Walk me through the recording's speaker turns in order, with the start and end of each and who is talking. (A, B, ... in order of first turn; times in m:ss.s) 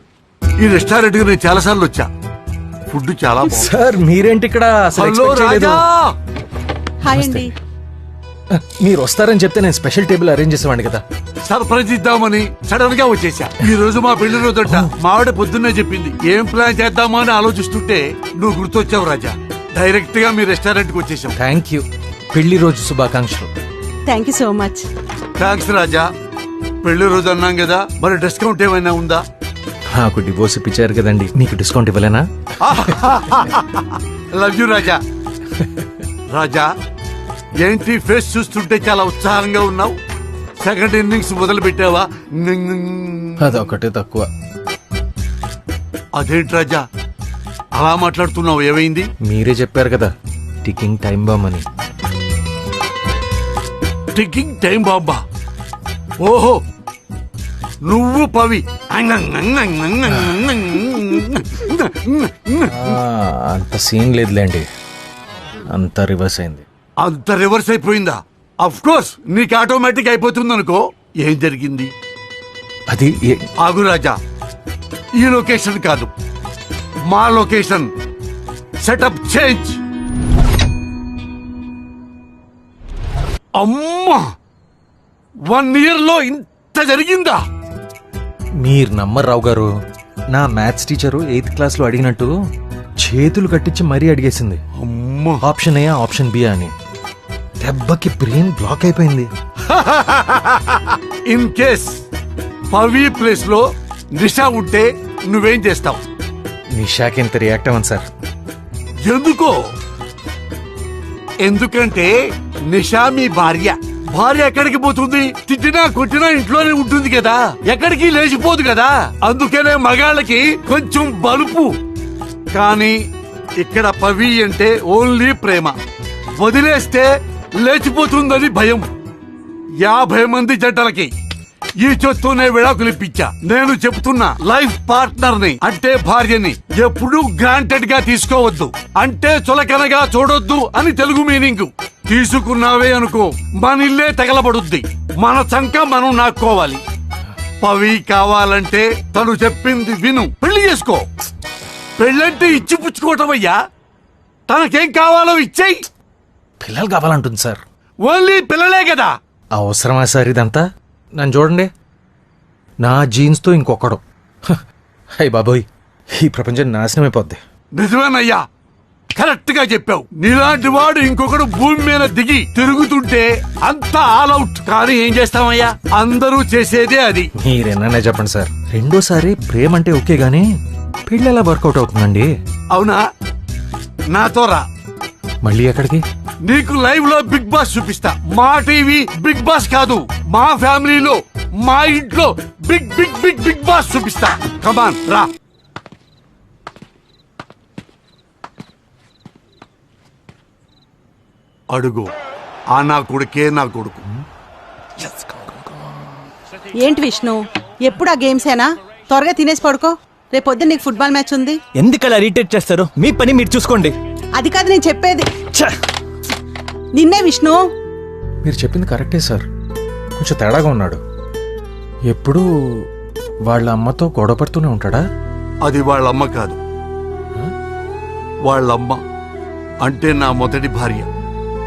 0:00.6-0:02.1 A
0:02.9-0:03.7 A
0:03.5-0:05.8 B
0:05.0-0:06.1 A
0:07.0-0:07.5 C
0:07.1-0:07.5 B
0:08.6-0:11.0 B
0:11.4-0:21.3 A
0:21.4-0:23.5 B
0:24.1-0:24.8 C
0:25.4-0:26.1 A
0:26.8-0:29.2 A
0:30.0-0:32.2 B
0:32.6-0:35.0 A
0:36.3-0:36.7 A
0:37.6-0:40.0 A
0:40.6-0:43.7 A
0:43.4-0:44.3 B
0:46.2-0:46.8 A
0:47.8-0:49.1 A
0:49.3-0:50.1 B
0:50.6-0:51.6 B
0:54.2-0:55.2 A
0:56.2-0:56.6 A
0:57.9-1:03.0 A
1:00.1-1:00.4 B
1:02.7-1:04.7 B
1:05.7-1:06.6 B
1:07.0-1:11.9 A
1:12.9-1:13.4 B
1:13.6-1:14.2 A
1:15.2-1:16.1 A
1:17.1-1:17.9 A
1:18.8-1:19.8 A
1:23.6-1:24.2 A
1:25.5-1:27.4 A
1:28.6-1:29.7 B
1:30.3-1:32.3 B
1:33.0-1:34.6 B
1:34.8-1:35.4 A
1:35.4-1:36.7 B
1:37.6-1:39.3 B
1:39.7-1:41.9 A
1:42.7-1:43.6 A
1:44.2-1:46.0 A
1:46.8-1:48.0 B
1:49.1-1:49.6 A
1:51.4-1:52.1 A
1:52.7-2:01.7 A
2:02.5-2:03.0 A
2:03.6-2:05.8 A
2:06.4-2:07.1 A
2:07.6-2:08.9 A
2:09.8-2:11.1 A
2:11.8-2:26.8 A
2:27.6-2:31.1 A
2:32.0-2:33.6 A
2:34.5-2:35.8 A
2:36.6-2:37.6 B
2:38.0-2:39.1 A
2:39.6-2:40.6 B
2:41.2-2:41.7 B
2:42.8-2:44.6 B
2:45.2-2:45.6 B
2:46.2-2:47.4 B
2:47.8-2:48.4 A
2:49.2-2:57.3 A
2:57.4-3:00.5 B
3:01.1-3:02.3 B
3:02.7-3:03.0 A
3:04.1-3:04.6 A
3:05.4-3:06.0 B
3:06.4-3:15.3 A
3:21.7-3:22.1 A
3:22.8-3:24.0 A
3:26.8-3:31.6 C
3:31.8-3:34.0 D
3:34.4-3:35.4 C
3:37.0-3:37.6 C
3:38.4-3:39.4 B
3:40.2-3:41.0 B
3:42.1-3:42.5 B
3:43.5-3:45.0 B
3:45.6-3:46.6 A
3:48.5-3:49.0 A
3:49.8-3:51.1 A